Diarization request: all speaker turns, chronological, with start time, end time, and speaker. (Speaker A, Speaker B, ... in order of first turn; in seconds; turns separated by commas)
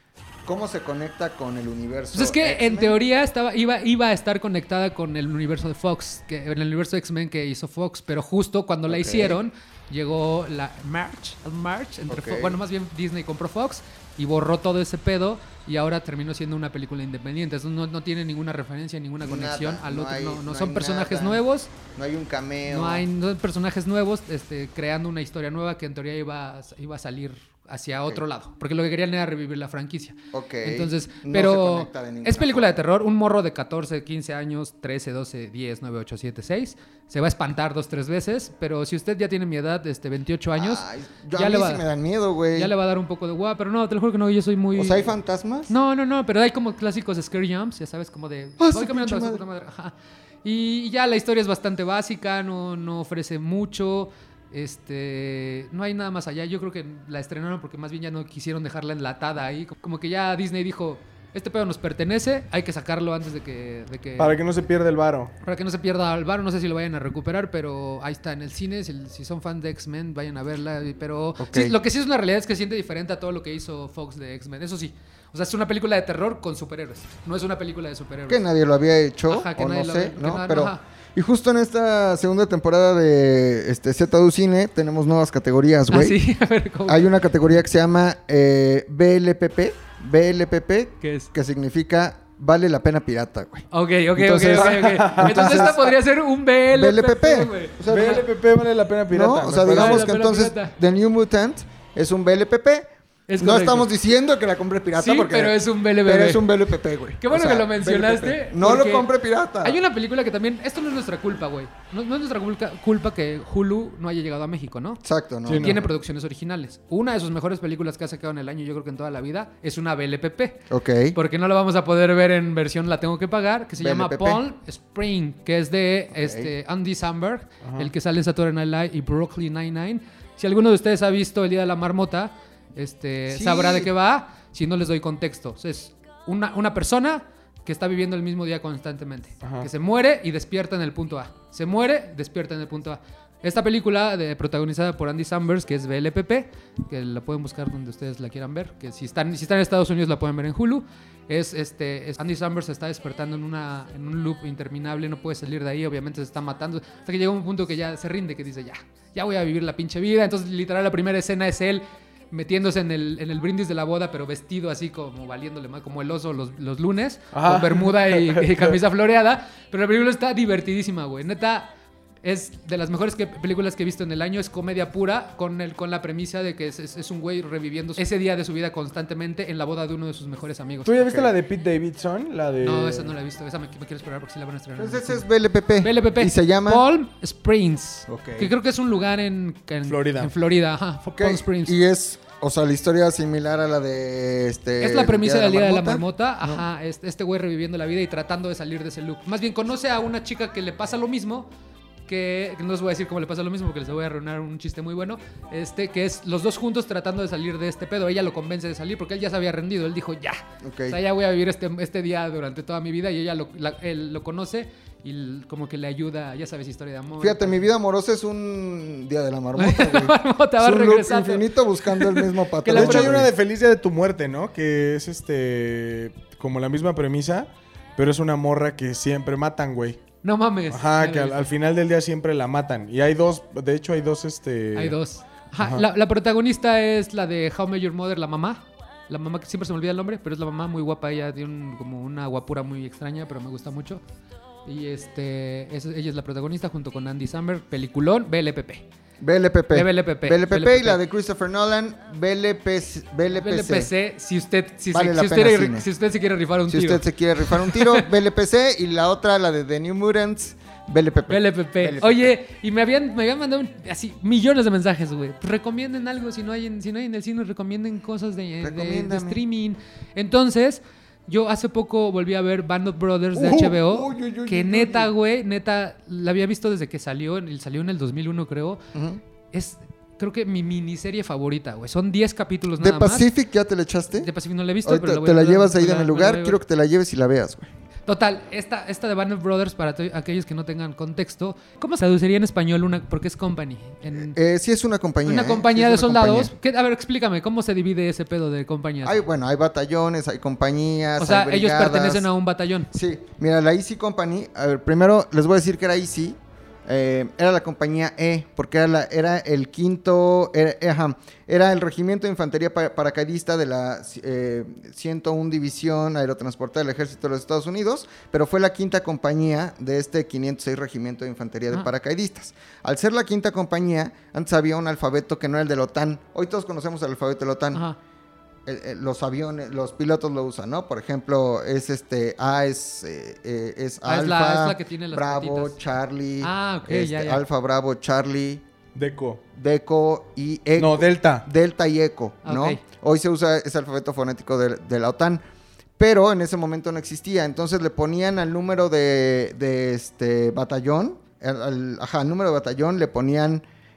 Speaker A: 0.4-3.0, Speaker B: 2.1-21.7, Speaker A: 8.9-9.4, Speaker A: 12.1-12.6, Speaker A: 19.2-23.1, Speaker B: 22.7-41.9, Speaker A: 30.3-32.7, Speaker A: 40.6-42.7, Speaker B: 42.5-45.1, Speaker A: 44.7-45.7, Speaker B: 45.7-64.4, Speaker A: 48.6-49.4, Speaker C: 64.2-65.3, Speaker B: 65.4-78.4, Speaker A: 71.4-71.8, Speaker A: 78.3-86.2, Speaker B: 79.3-80.8, Speaker B: 85.9-87.1, Speaker A: 86.9-93.7, Speaker B: 91.0-91.3, Speaker B: 93.7-98.2, Speaker C: 94.2-95.8, Speaker A: 94.5-95.9, Speaker A: 96.7-98.2, Speaker C: 97.8-100.1, Speaker A: 99.1-102.9, Speaker B: 99.6-100.7, Speaker B: 103.3-103.9, Speaker A: 103.4-109.8, Speaker B: 105.0-106.5, Speaker B: 107.2-109.1, Speaker B: 109.6-120.6, Speaker A: 115.0-115.9, Speaker C: 115.5-115.8, Speaker A: 120.7-121.2, Speaker B: 121.1-171.7, Speaker A: 123.8-124.4, Speaker A: 126.1-126.5, Speaker C: 127.6-127.9, Speaker A: 133.3-133.9, Speaker C: 139.4-139.7, Speaker C: 167.3-168.8, Speaker B: 172.2-180.9, Speaker C: 180.8-183.1, Speaker A: 181.0-181.3, Speaker B: 182.6-185.2, Speaker A: 184.8-186.8, Speaker B: 185.8-191.8, Speaker A: 188.1-188.5, Speaker C: 189.8-190.3, Speaker A: 191.1-196.6, Speaker B: 194.8-201.5, Speaker B: 202.1-217.7, Speaker A: 210.6-211.0, Speaker A: 217.2-223.3, Speaker B: 219.6-223.2, Speaker C: 222.7-230.0, Speaker B: 230.2-231.4, Speaker C: 230.7-234.9, Speaker B: 234.8-244.0, Speaker C: 235.6-235.8, Speaker B: 244.6-248.8, Speaker A: 249.2-253.9, Speaker B: 249.7-251.0, Speaker B: 253.3-258.1, Speaker A: 254.9-255.9, Speaker A: 256.7-262.3, Speaker B: 261.3-278.8, Speaker A: 268.6-269.4, Speaker A: 273.3-275.1, Speaker A: 278.9-279.2, Speaker B: 279.5-283.3, Speaker A: 282.8-284.3, Speaker B: 284.1-286.6, Speaker A: 284.8-287.7, Speaker B: 288.1-294.4, Speaker A: 294.1-296.5, Speaker B: 295.2-299.2, Speaker A: 299.0-302.3, Speaker B: 301.2-302.9, Speaker A: 302.9-327.8, Speaker A: 328.6-338.6, Speaker B: 334.1-335.8, Speaker B: 336.4-337.4, Speaker C: 338.9-339.4, Speaker A: 339.5-345.4, Speaker C: 340.8-341.4, Speaker B: 342.4-342.8, Speaker A: 346.0-353.6